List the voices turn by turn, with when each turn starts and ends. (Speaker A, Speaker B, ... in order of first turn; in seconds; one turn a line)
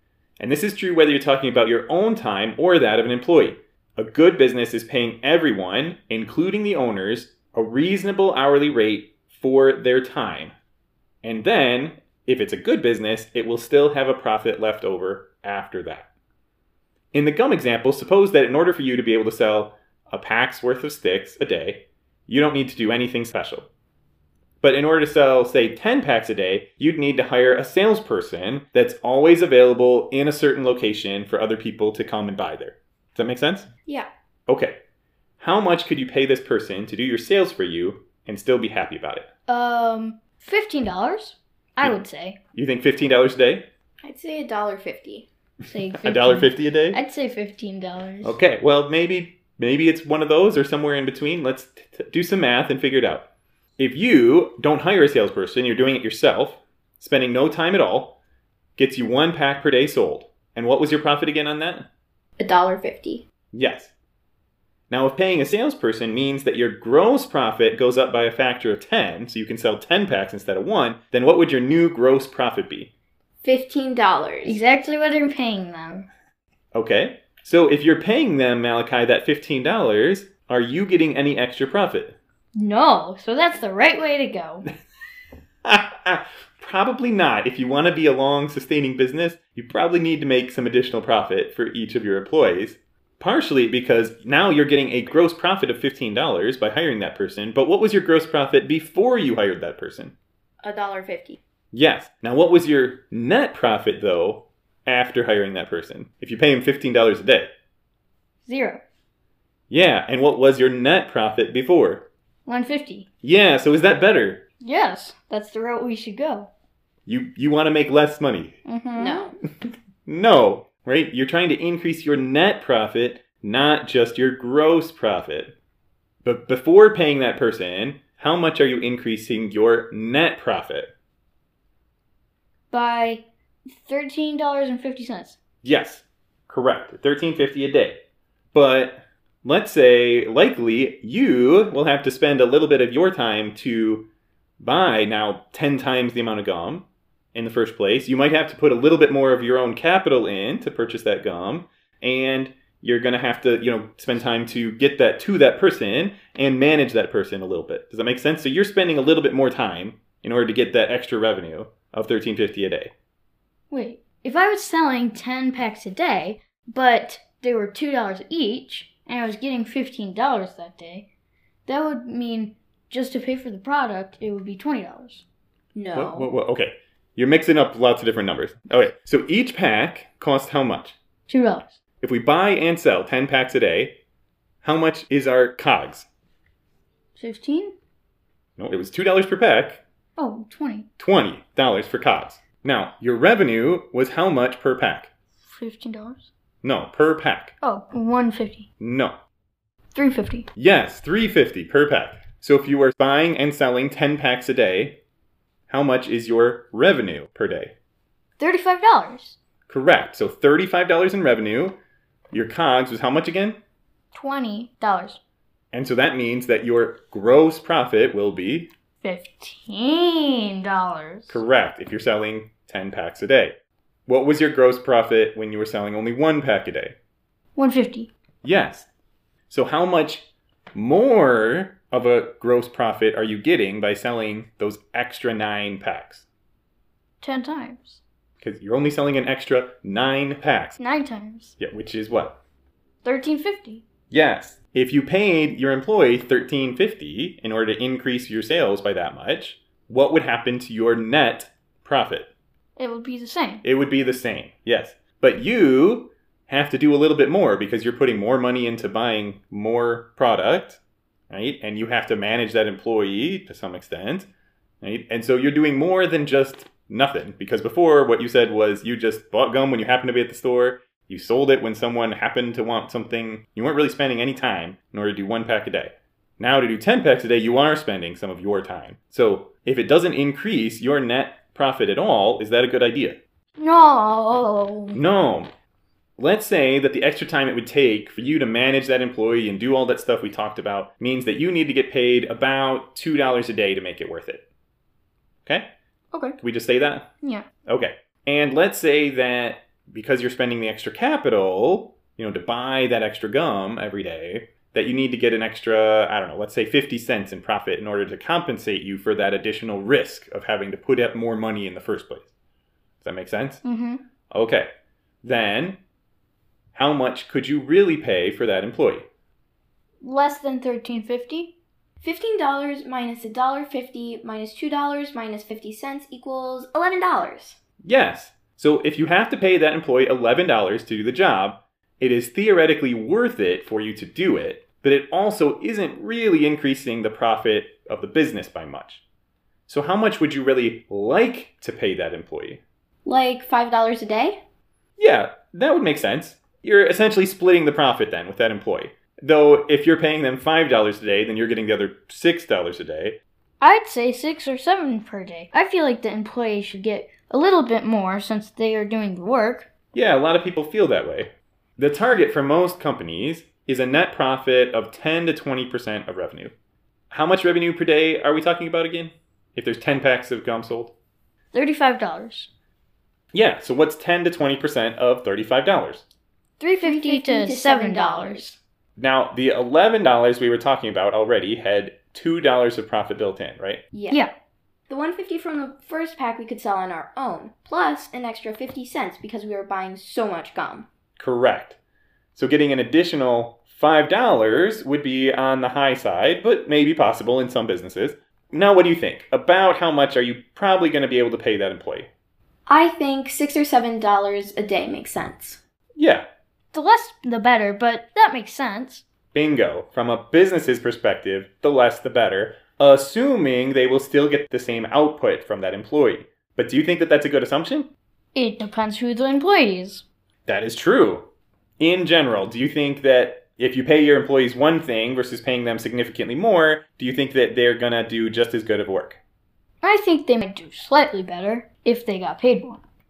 Speaker A: 0.4-10.5
Speaker A: 11.2-16.1
Speaker A: 17.1-23.7
Speaker A: 24.6-33.7
Speaker A: 34.5-34.8
Speaker A: 35.4-39.3
Speaker B: 39.5-42.4
Speaker A: 42.5-43.7
Speaker C: 44.0-45.3
Speaker B: 45.6-48.4
Speaker A: 46.0-47.0
Speaker A: 48.2-53.3
Speaker A: 53.8-58.2
Speaker A: 58.8-61.9
Speaker C: 62.4-63.2
Speaker A: 63.5-63.9
Speaker A: 64.9-72.9
Speaker C: 73.4-74.6
Speaker B: 74.4-76.1
Speaker A: 76.7-82.2
Speaker B: 82.5-84.7
Speaker A: 85.6-100.1
Speaker C: 100.6-101.4
Speaker A: 101.7-107.5
Speaker B: 108.5-108.8
Speaker A: 109.7-112.1
Speaker B: 112.5-113.0
Speaker A: 113.2-114.4
Speaker B: 114.6-116.5
Speaker A: 117.0-118.6
Speaker B: 118.7-119.2
Speaker C: 119.0-119.3
Speaker A: 120.0-125.5
Speaker A: 126.2-130.9
Speaker B: 132.7-135.4
Speaker A: 135.6-138.0
Speaker A: 138.5-144.1
Speaker A: 144.6-162.9
Speaker B: 163.7-171.1
Speaker B: 171.7-175.2
Speaker C: 175.7-176.3
Speaker A: 175.9-181.0
Speaker B: 181.3-181.8
Speaker A: 182.0-184.0
Speaker A: 184.6-186.1
Speaker B: 187.2-187.7
Speaker A: 188.6-189.8
Speaker B: 190.2-190.9
Speaker A: 191.0-195.1
Speaker B: 195.4-196.3
Speaker A: 196.6-197.5
Speaker B: 197.6-198.7
Speaker A: 198.8-199.2
Speaker B: 199.9-200.5
Speaker A: 200.6-205.0
Speaker A: 205.7-207.7
Speaker B: 208.4-209.4
Speaker A: 209.7-211.8
Speaker A: 212.3-213.6
Speaker B: 214.1-215.2
Speaker A: 215.7-218.7
Speaker B: 219.0-221.4
Speaker A: 221.3-223.6
Speaker A: 224.1-226.9
Speaker B: 227.6-228.1
Speaker A: 228.4-228.9
Speaker A: 229.5-236.2
Speaker B: 237.2-238.0
Speaker A: 238.4-240.8
Speaker B: 240.8-241.5
Speaker A: 241.6-242.4
Speaker B: 243.0-243.8
Speaker A: 244.1-252.3
Speaker B: 252.8-253.6
Speaker A: 253.6-264.3
Speaker A: 264.8-283.2
Speaker B: 283.6-285.0
Speaker A: 284.9-285.5
Speaker A: 286.2-294.4
Speaker A: 296.4-297.1
Speaker A: 297.6-312.3
Speaker A: 313.0-313.6
Speaker B: 313.6-314.0
Speaker A: 314.3-314.7
Speaker A: 315.2-315.8
Speaker A: 316.7-319.1
Speaker B: 320.0-321.5
Speaker C: 322.0-327.6
Speaker A: 327.8-339.0
Speaker A: 339.7-342.6
Speaker C: 343.0-344.4
Speaker A: 345.0-353.2
Speaker B: 353.6-359.7
Speaker A: 359.9-366.5
Speaker A: 367.1-370.9
Speaker B: 371.5-372.5
Speaker A: 373.3-376.0
Speaker B: 376.6-378.6
Speaker C: 376.8-378.5
Speaker A: 379.0-383.8
Speaker C: 383.9-384.2
Speaker C: 384.9-390.9
Speaker A: 391.2-391.8
Speaker A: 392.3-402.1
Speaker C: 402.7-405.6
Speaker A: 405.9-406.2
Speaker B: 406.7-409.0
Speaker A: 409.3-417.9
Speaker B: 418.3-420.0
Speaker A: 420.5-421.3
Speaker A: 421.8-429.2
Speaker B: 429.8-432.8